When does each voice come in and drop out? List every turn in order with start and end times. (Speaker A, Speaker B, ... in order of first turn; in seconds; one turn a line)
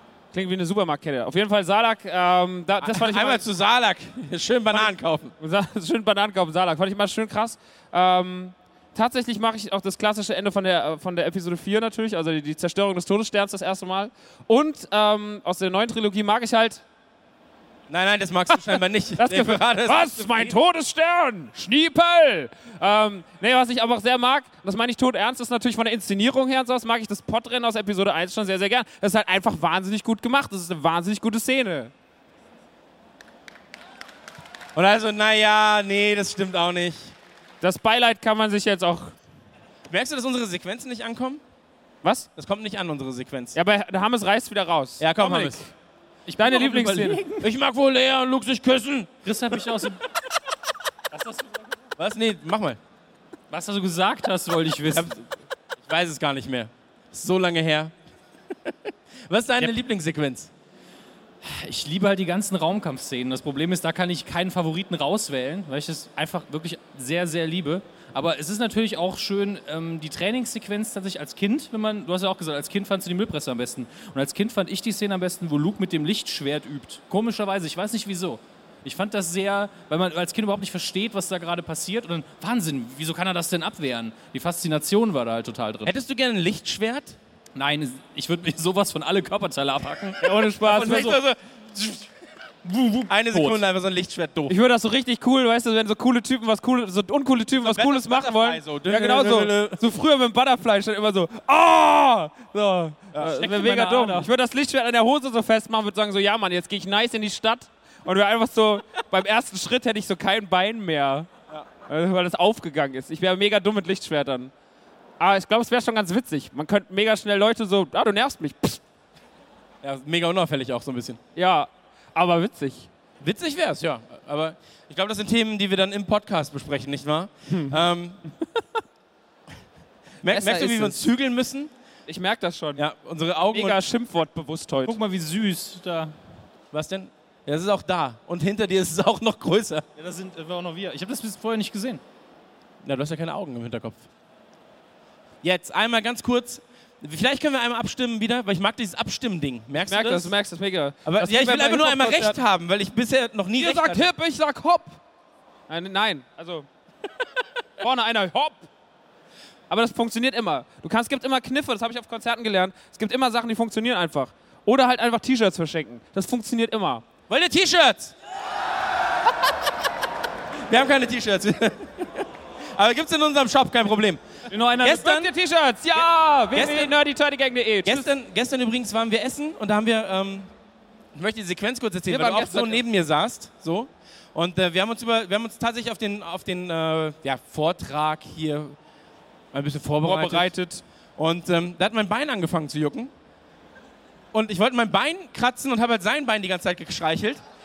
Speaker A: 0.3-3.5
Speaker B: 2.8-5.3
Speaker A: 4.7-16.8
Speaker B: 17.9-20.6
Speaker A: 19.2-31.9
Speaker B: 34.8-37.1
Speaker A: 37.6-39.1
Speaker B: 39.9-41.4
Speaker A: 42.0-42.3
Speaker B: 42.4-43.6
Speaker A: 43.5-45.7
Speaker B: 45.0-45.6
Speaker C: 46.3-47.4
Speaker A: 46.4-47.3
Speaker B: 47.4-49.1
Speaker C: 49.2-50.0
Speaker C: 51.1-51.7
Speaker B: 52.0-52.8
Speaker C: 53.5-55.1
Speaker B: 54.9-55.2
Speaker B: 55.8-57.9
Speaker B: 59.3-60.5
Speaker C: 61.4-85.9
Speaker B: 85.8-87.2
Speaker C: 87.5-90.2
Speaker A: 90.2-91.2
Speaker B: 90.3-92.1
Speaker C: 92.7-93.6
Speaker B: 93.1-94.6
Speaker A: 94.5-111.3
Speaker B: 97.6-99.8
Speaker C: 103.2-104.3
Speaker A: 111.9-114.5
Speaker A: 115.2-118.8
Speaker B: 119.8-121.2
Speaker A: 121.3-122.9
Speaker B: 123.2-128.2
Speaker A: 127.5-127.8
Speaker B: 130.2-131.7
Speaker A: 130.3-131.0
Speaker A: 132.1-132.9
Speaker B: 132.8-133.8
Speaker A: 133.5-135.0
Speaker C: 134.9-136.1
Speaker B: 136.7-139.8
Speaker C: 140.0-142.0
Speaker B: 142.8-144.1
Speaker B: 145.4-150.3
Speaker A: 149.9-152.4
Speaker B: 151.1-154.1
Speaker A: 153.6-155.0
Speaker A: 155.7-156.7
Speaker A: 157.8-158.7
Speaker A: 159.7-167.0
Speaker B: 167.3-168.1
Speaker B: 170.7-172.2
Speaker B: 172.8-174.2
Speaker C: 174.5-175.1
Speaker B: 174.8-175.3
Speaker A: 174.9-178.1
Speaker B: 175.9-176.9
Speaker B: 177.8-180.5
Speaker B: 181.1-188.8
Speaker A: 182.1-182.8
Speaker B: 189.5-190.5
Speaker A: 190.0-190.8
Speaker B: 191.2-193.1
Speaker B: 194.3-197.4